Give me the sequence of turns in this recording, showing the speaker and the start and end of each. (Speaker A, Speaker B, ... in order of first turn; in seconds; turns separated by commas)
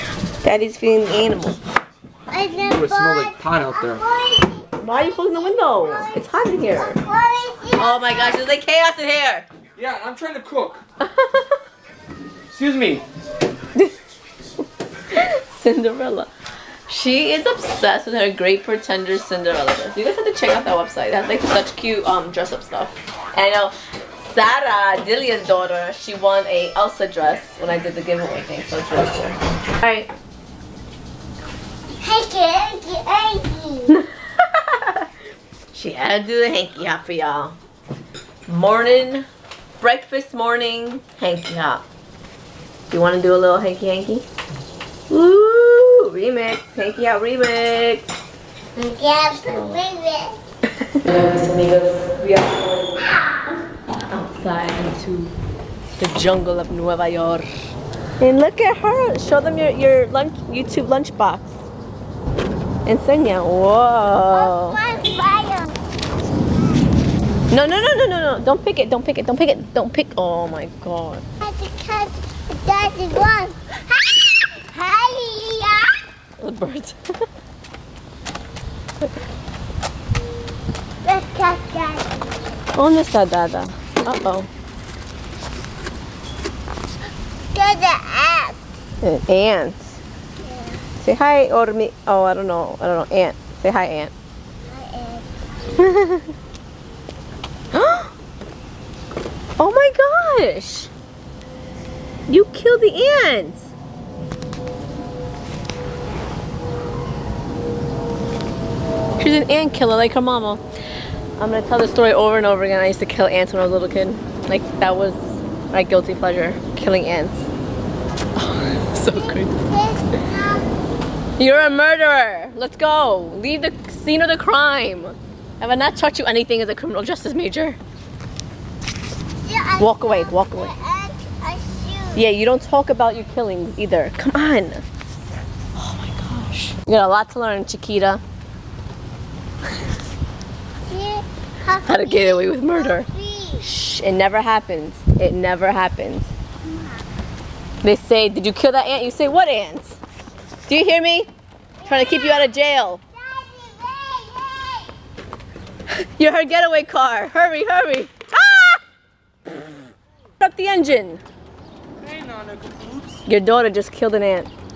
Speaker A: 0.4-1.6, Speaker B: 2.3-8.4, Speaker C: 2.6-4.0, Speaker A: 4.8-7.0, Speaker A: 7.8-9.5, Speaker C: 9.8-10.8, Speaker A: 11.0-11.5, Speaker C: 12.5-13.1, Speaker A: 15.1-16.3, Speaker A: 16.9-30.1, Speaker B: 32.0-33.9, Speaker A: 33.9-35.0, Speaker A: 35.7-37.5, Speaker A: 38.5-39.3, Speaker A: 39.8-41.8, Speaker A: 42.9-44.2, Speaker A: 45.1-48.1, Speaker B: 48.8-50.4, Speaker C: 49.3-49.8, Speaker A: 50.8-53.0, Speaker B: 53.0-53.5, Speaker A: 54.1-55.3, Speaker A: 56.0-57.5, Speaker A: 58.2-61.6, Speaker A: 62.9-64.8, Speaker B: 64.3-65.7, Speaker A: 67.5-71.2, Speaker B: 71.4-75.9, Speaker A: 76.4-77.0, Speaker B: 81.0-82.3, Speaker A: 82.7-84.5, Speaker B: 87.5-88.6, Speaker A: 89.0-89.9, Speaker B: 90.4-90.8, Speaker A: 91.0-94.1, Speaker B: 94.6-95.3, Speaker A: 95.8-96.3, Speaker A: 97.7-98.1, Speaker A: 99.6-100.9, Speaker A: 102.3-103.7, Speaker A: 109.2-110.6, Speaker A: 111.4-117.5, Speaker A: 118.3-119.5, Speaker B: 118.9-120.6, Speaker A: 121.4-127.8, Speaker B: 129.4-132.2, Speaker A: 129.8-130.7, Speaker A: 132.1-134.8, Speaker A: 135.8-138.2, Speaker B: 140.9-143.6, Speaker A: 141.8-143.1, Speaker A: 143.6-146.3, Speaker B: 146.6-147.1, Speaker A: 147.8-150.0, Speaker A: 150.7-151.3, Speaker B: 151.8-154.9, Speaker A: 151.8-153.0, Speaker A: 155.9-158.7, Speaker A: 160.4-161.2, Speaker C: 162.0-163.2, Speaker A: 163.2-164.5